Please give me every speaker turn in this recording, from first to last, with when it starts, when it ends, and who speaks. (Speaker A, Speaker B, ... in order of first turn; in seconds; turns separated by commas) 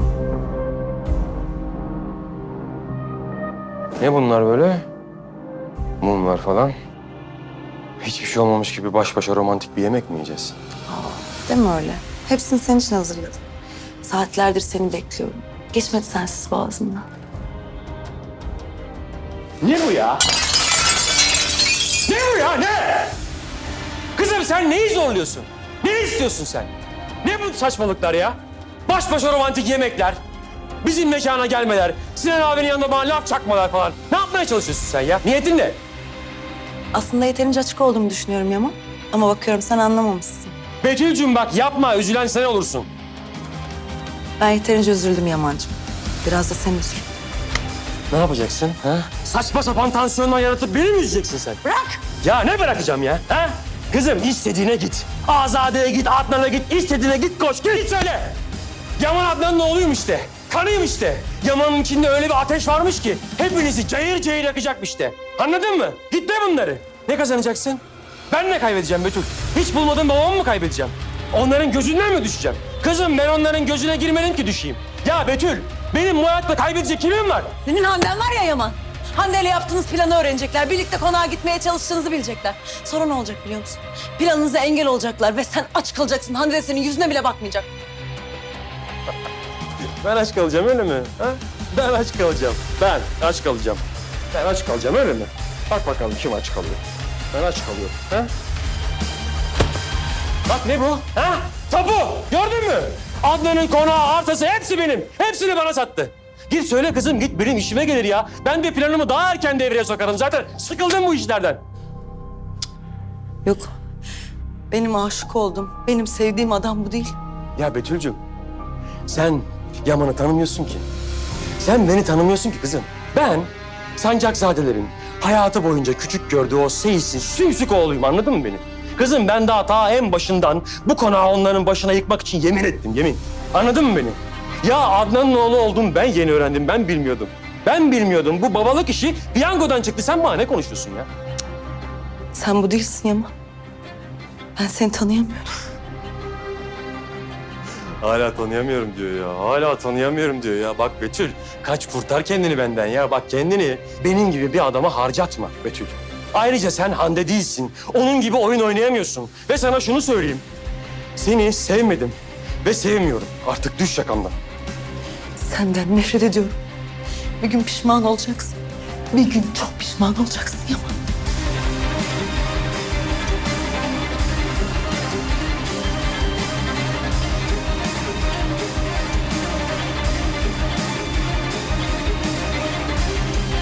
Speaker A: 4.0-4.8, Speaker A: 6.0-6.7, Speaker A: 8.0-10.6, Speaker B: 10.9-13.4, Speaker B: 14.0-17.1, Speaker A: 19.6-20.2, Speaker A: 21.9-23.2, Speaker A: 24.1-30.2, Speaker A: 30.8-35.8, Speaker B: 36.9-40.5, Speaker A: 40.8-42.9, Speaker B: 44.4-47.1, Speaker A: 48.1-58.4, Speaker B: 51.7-52.0, Speaker A: 59.0-77.5, Speaker B: 77.6-87.7, Speaker A: 90.0-96.8, Speaker A: 97.3-98.3, Speaker A: 100.5-111.6, Speaker B: 113.4-113.7, Speaker B: 114.7-117.1, Speaker A: 117.6-118.2, Speaker A: 119.1-120.9, Speaker A: 121.6-141.1, Speaker B: 142.3-143.3, Speaker B: 144.6-145.5, Speaker A: 148.0-160.4, Speaker A: 161.2-164.4, Speaker B: 165.4-166.6, Speaker B: 167.4-168.6, Speaker B: 169.1-171.0